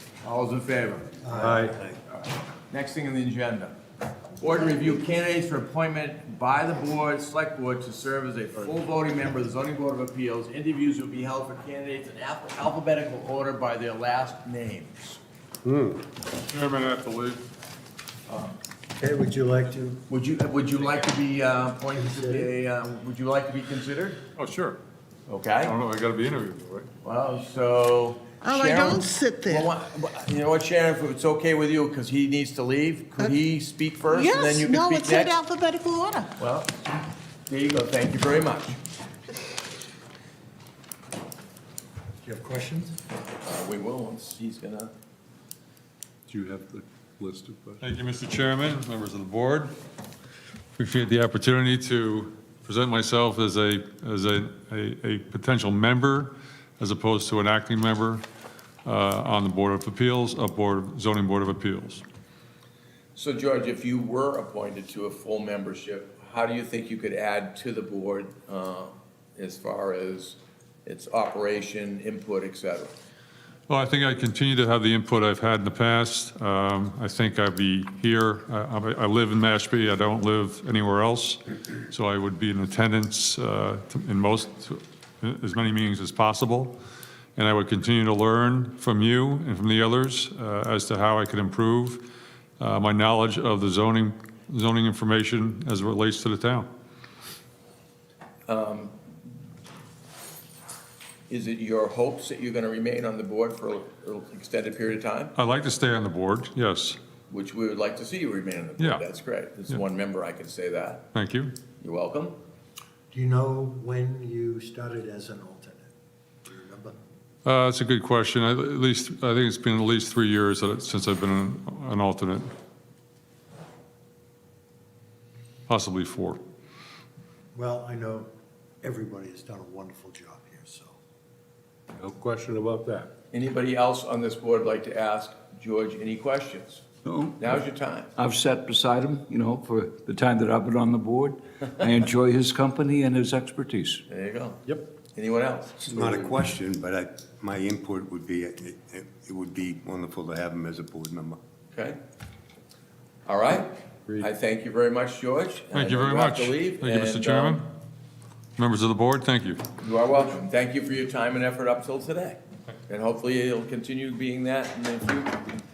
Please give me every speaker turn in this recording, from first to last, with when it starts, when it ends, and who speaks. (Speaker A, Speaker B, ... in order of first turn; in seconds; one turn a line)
Speaker A: 0.2-1.2
Speaker B: 1.2-1.8
Speaker C: 1.5-1.8
Speaker A: 2.1-3.8
Speaker A: 4.4-15.2
Speaker D: 15.7-16.0
Speaker E: 16.5-17.4
Speaker B: 19.0-20.0
Speaker A: 20.1-24.2
Speaker B: 22.0-22.5
Speaker E: 24.4-24.8
Speaker A: 25.3-25.8
Speaker E: 25.6-26.9
Speaker A: 27.0-35.3
Speaker F: 28.4-29.7
Speaker F: 34.1-36.4
Speaker A: 36.4-38.8
Speaker B: 42.2-43.0
Speaker A: 43.4-44.9
Speaker C: 46.3-47.8
Speaker E: 47.8-49.7
Speaker E: 50.8-58.2
Speaker E: 58.9-62.0
Speaker A: 63.1-72.9
Speaker E: 73.7-81.4
Speaker E: 81.9-86.8
Speaker E: 87.4-92.0
Speaker E: 92.6-96.7
Speaker A: 98.5-99.0
Speaker A: 101.3-105.3
Speaker E: 105.4-107.0
Speaker A: 107.3-111.0
Speaker E: 111.1-111.6
Speaker A: 111.8-112.4
Speaker B: 113.1-115.9
Speaker B: 116.5-117.0
Speaker E: 117.5-122.5
Speaker E: 125.7-126.4
Speaker B: 127.5-128.3
Speaker B: 128.8-130.9
Speaker C: 132.0-133.1
Speaker A: 133.3-136.8
Speaker G: 137.1-137.5
Speaker A: 137.4-138.1
Speaker G: 138.2-144.0
Speaker A: 144.1-144.6
Speaker A: 145.2-145.8
Speaker D: 145.8-151.4
Speaker A: 151.7-152.0
Speaker A: 153.3-157.6
Speaker E: 155.7-157.7
Speaker E: 158.6-159.6
Speaker A: 159.8-165.4